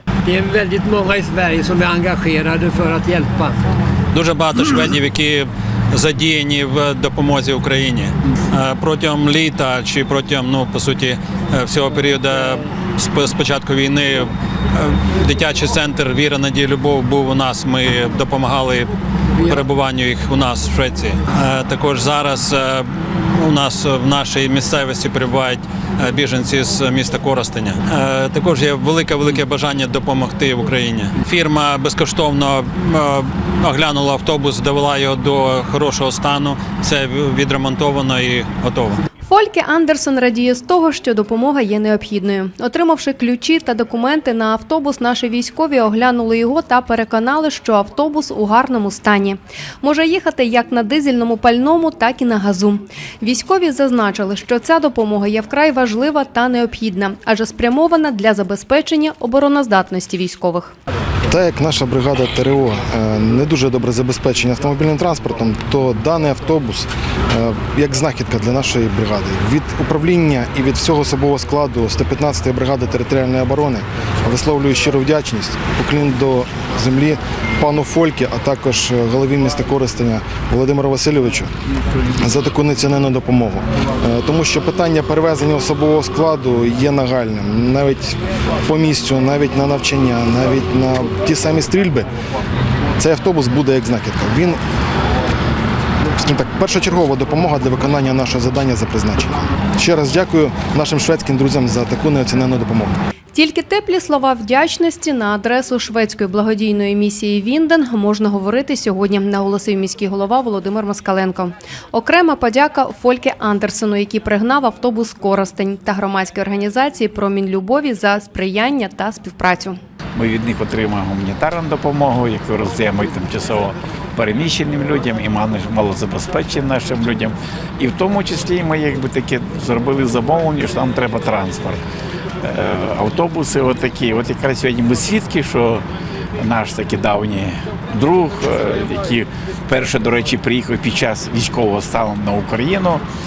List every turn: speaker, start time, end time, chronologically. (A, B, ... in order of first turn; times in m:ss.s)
0:00.2-0:03.6 A
0:04.1-0:39.0 B
0:39.2-1:00.7 C
1:01.3-1:21.5 D
1:22.2-1:32.1 D
1:33.0-1:34.6 D
1:36.2-1:42.9 D
1:43.3-1:59.8 C
2:00.1-2:11.8 E
2:12.4-2:15.8 E
2:16.4-2:23.0 E